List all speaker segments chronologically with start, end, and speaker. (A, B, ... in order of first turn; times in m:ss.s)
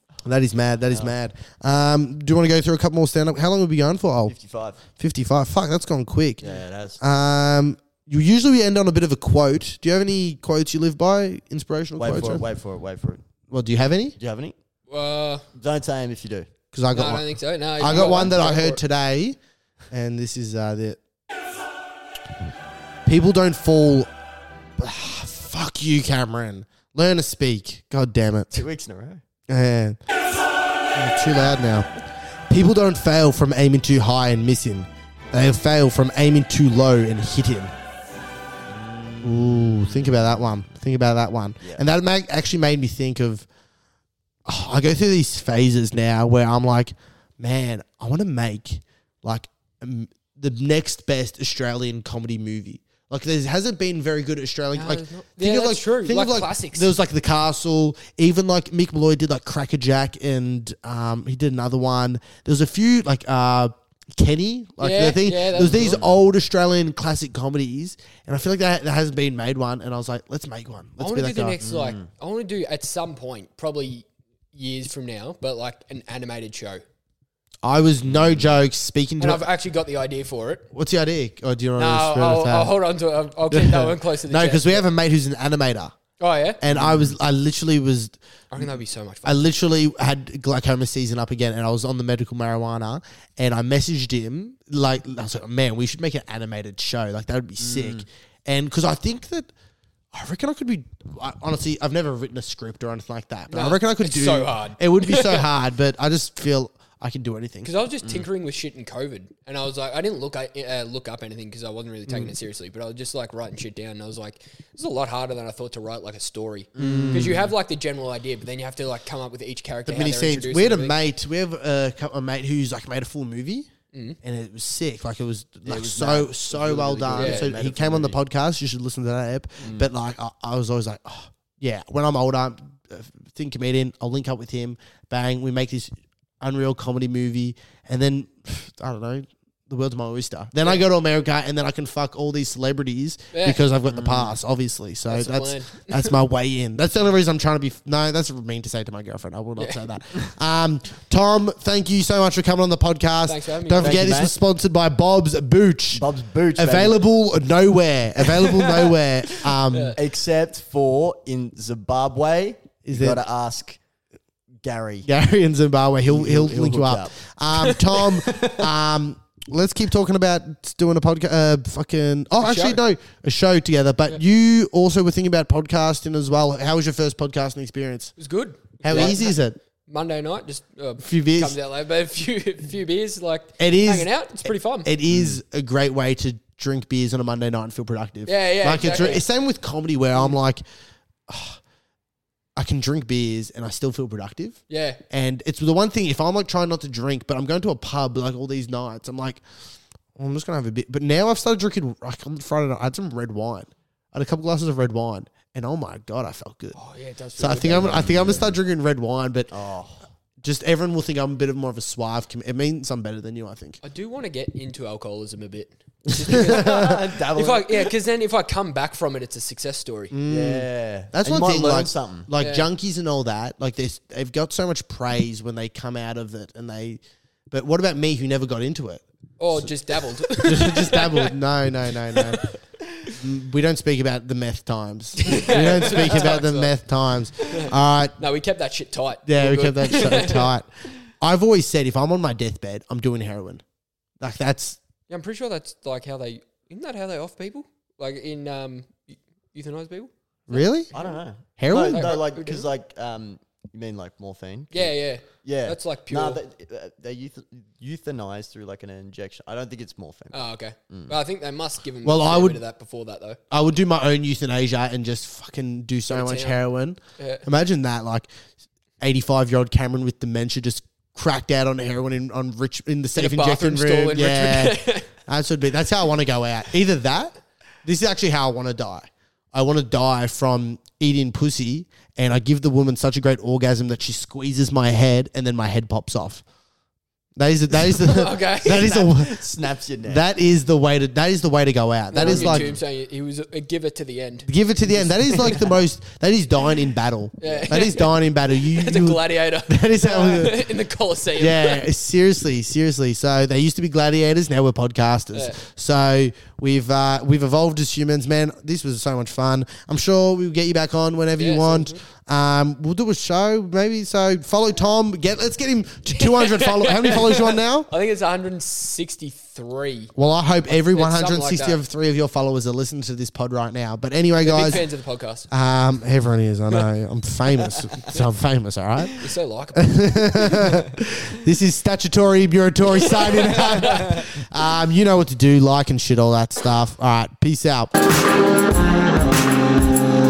0:00.2-0:04.3 A
0:00.9-0:01.1 B
0:04.3-0:04.8 B
0:04.9-0:06.4 A
0:06.4-0:07.0 B
0:07.0-0:12.4 A
0:12.0-0:13.2 B
0:13.5-0:14.1 A
0:14.2-0:14.6 B
0:14.9-0:15.4 C
0:15.6-0:16.5 B
0:16.7-0:17.3 A
0:16.9-0:18.8 C
0:17.8-0:19.4 A
0:17.8-0:18.4 B
0:19.9-0:21.0 A
0:23.0-0:24.1 A
0:24.8-0:28.7 A
0:28.5-0:29.2 B
0:29.5-0:30.0 A
0:30.9-0:31.9 A
0:32.5-0:37.7 A
0:38.7-0:40.5 B
0:39.2-0:43.5 A
0:44.4-1:11.6 A
0:54.7-0:56.9 C
1:04.8-1:06.0 C
1:05.6-1:06.2 B
1:11.0-1:16.8 C
1:11.6-1:12.1 B
1:17.6-1:19.4 A
1:18.1-1:18.5 B
1:19.2-1:20.6 C
1:20.7-1:22.7 A
1:21.8-1:24.9 C
1:23.5-1:25.9 A
1:26.2-1:26.6 C
1:26.6-1:28.7 A
1:26.7-1:27.1 B
1:28.5-1:29.5 C
1:29.2-1:39.5 A
1:37.6-1:38.0 B
1:40.1-1:47.7 A
1:43.5-1:45.5 C
1:47.6-2:01.0 C
1:52.1-1:52.3 A
1:56.7-1:57.4 B
1:56.8-1:57.5 A
1:59.9-2:03.7 A
2:03.9-2:04.2 C
2:04.2-2:40.0 A
2:05.6-2:08.2 B
2:07.1-2:07.5 C
2:09.6-2:09.9 B
2:23.3-2:23.6 C
2:23.9-2:24.4 B
2:25.1-2:26.1 C
2:29.6-2:29.9 C
2:33.3-2:34.2 C
2:33.8-2:34.4 B
2:35.9-2:37.0 B
2:39.6-2:40.0 C
2:40.0-2:43.8 B
2:42.9-2:43.2 A
2:44.6-2:45.1 B
2:45.0-2:58.1 A
2:46.0-2:47.2 B
2:47.5-2:48.3 C
2:48.2-2:48.7 B
2:52.4-2:52.8 C
2:58.2-3:04.9 C
2:58.8-2:59.6 A
3:01.0-3:01.6 A
3:03.6-3:10.6 A
3:05.1-3:05.4 B
3:08.3-3:09.3 C
3:11.3-3:11.6 A
3:12.6-3:19.4 A
3:14.7-3:15.0 C
3:20.1-3:26.8 A
3:26.7-3:28.2 C
3:27.4-3:29.5 A
3:27.7-3:28.6 B
3:29.5-3:30.0 B
3:30.4-3:33.8 A
3:33.8-3:40.1 C
3:36.2-3:37.0 A
3:36.3-3:37.9 B
3:40.1-3:49.0 A
3:40.3-3:42.3 B
3:42.4-3:42.7 C
3:49.4-3:51.3 C
3:50.2-3:52.5 A
3:52.1-3:52.6 C
3:53.0-3:58.2 A
3:55.2-3:56.7 C
3:57.4-4:00.5 C
3:59.3-4:00.7 A
4:01.2-4:03.6 A
4:04.2-4:04.8 A
4:05.1-4:11.2 C
4:10.5-4:10.9 A
4:10.9-4:21.1 B
4:11.6-4:12.2 A
4:11.8-4:12.7 C
4:14.7-4:16.4 C
4:20.3-4:23.4 C
4:22.0-4:22.6 A
4:23.5-4:28.3 A
4:26.1-4:26.6 C
4:27.2-4:27.4 C
4:29.0-4:46.4 A
4:33.1-4:35.1 C
4:47.4-4:49.5 A
4:47.9-4:49.1 C
4:48.6-4:50.3 B
4:50.0-4:52.7 A
4:52.1-4:54.5 C
4:52.2-4:52.8 B
4:54.4-5:00.6 A
4:54.9-4:55.8 B
4:55.2-4:55.6 C
4:57.4-5:01.8 C
4:57.4-4:57.7 B
5:01.4-5:17.9 A
5:05.3-5:05.6 C
5:11.4-5:12.0 C
5:16.2-5:20.1 C
5:20.2-5:24.8 A
5:20.7-5:21.8 C
5:24.4-5:25.5 C
5:25.5-5:37.9 A
5:29.2-5:30.6 C
5:33.6-5:34.1 C